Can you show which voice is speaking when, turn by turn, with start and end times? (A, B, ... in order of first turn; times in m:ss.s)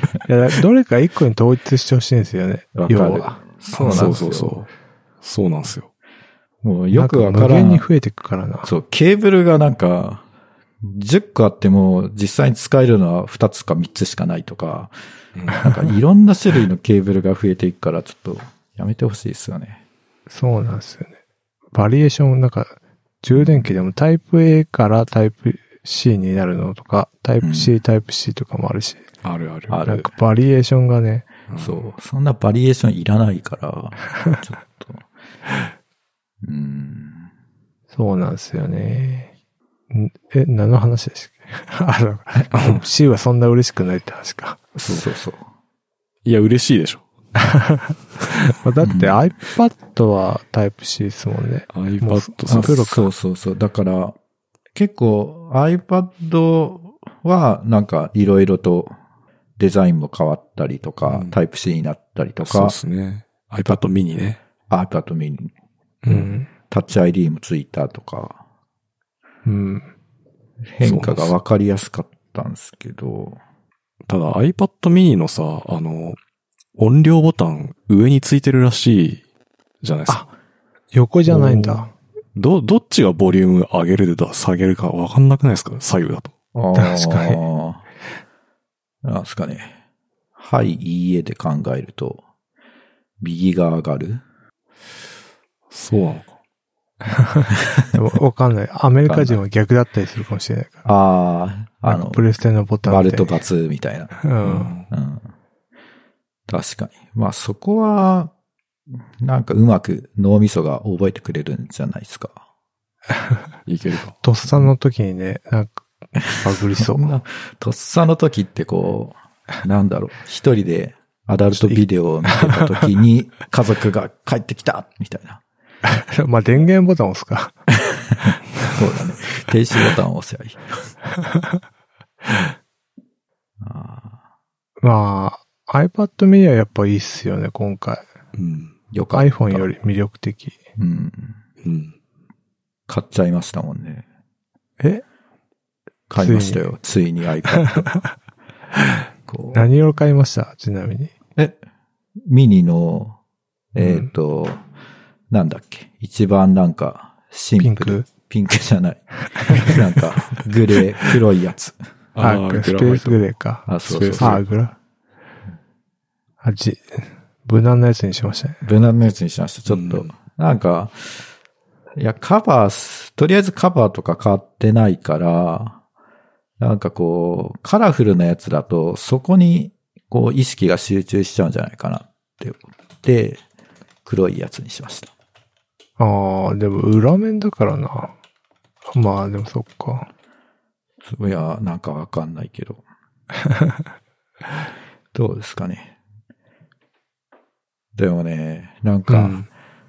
0:00.2-0:04.3 A
0:02.8-0:04.6 B
0:03.8-0:04.7 C
0:05.2-0:05.9 C
0:06.6-0:07.9 B
0:06.9-0:08.7 A
0:08.6-0:10.2 B
0:10.8-0:14.9 B
0:15.4-0:15.8 C
0:15.6-0:19.8 B
0:20.3-0:21.1 A
0:21.7-0:29.0 A
0:23.4-0:23.6 B
0:27.4-0:27.8 B
0:29.2-0:29.9 C
0:29.7-0:30.1 B
0:29.8-0:31.2 A
0:31.5-0:31.8 C
0:31.6-0:35.1 B
0:36.4-0:37.3 B
0:37.9-0:39.3 A
0:39.9-0:44.6 A
0:42.5-0:42.8 C
0:44.8-0:45.4 B
0:46.2-0:47.0 C
0:47.4-0:53.1 A
0:48.8-0:49.2 B
0:51.7-0:52.8 C
0:52.5-0:54.2 B
0:54.7-0:58.9 B
0:59.6-1:02.8 B
1:01.0-1:01.4 C
1:02.4-1:04.4 C
1:04.7-1:05.5 B
1:06.0-1:06.4 C
1:06.1-1:06.5 A
1:06.7-1:08.4 B
1:09.4-1:09.9 A
1:10.8-1:13.4 B
1:10.8-1:11.3 C
1:14.1-1:16.2 C
1:16.8-1:19.2 C
1:19.8-1:20.2 C
1:20.9-1:21.9 A
1:21.3-1:26.3 C
1:26.6-1:27.8 B
1:26.8-1:27.4 A
1:29.0-1:29.7 B
1:30.4-1:32.2 B
1:33.2-1:34.2 B
1:35.7-1:36.3 C
1:37.3-1:40.8 A
1:39.0-1:39.4 B
1:40.8-1:42.2 B
1:41.9-1:43.4 A
1:42.8-1:44.1 B
1:44.2-1:44.7 A
1:44.4-1:44.9 C
1:44.9-1:45.3 B
1:46.5-1:48.3 B
1:49.2-1:52.4 B
1:53.7-1:54.2 C
1:54.2-1:57.2 A
1:56.4-2:05.4 B
2:01.6-2:02.6 A
2:05.8-2:07.6 A
2:08.2-2:10.8 B
2:13.6-2:14.2 B
2:14.8-2:18.1 A
2:18.4-2:18.7 C
2:18.9-2:19.7 B
2:19.1-2:20.6 A
2:20.8-2:21.4 B
2:21.6-2:22.0 C
2:22.9-2:24.0 B
2:26.1-2:27.9 B
2:26.2-2:26.8 A
2:27.6-2:28.1 A
2:29.3-2:29.7 B
2:29.5-2:31.1 A
2:32.2-2:33.2 B
2:33.7-2:34.6 B
2:33.8-2:34.1 A
2:35.3-2:41.8 B
2:37.6-2:38.1 A
2:39.4-2:39.7 A
2:42.2-2:43.2 C
2:42.2-2:43.7 A
2:43.7-2:44.4 B
2:43.8-2:44.4 C
2:44.2-2:44.8 A
2:46.4-2:48.6 A
2:48.6-2:51.0 B
2:49.7-2:50.1 C
2:52.0-2:55.8 B
2:56.6-3:03.4 B
3:04.0-3:05.1 B
3:06.0-3:08.2 A
3:08.9-3:10.1 A
3:11.0-3:12.8 B
3:15.1-3:16.0 B
3:18.0-3:19.4 B
3:19.1-3:19.5 A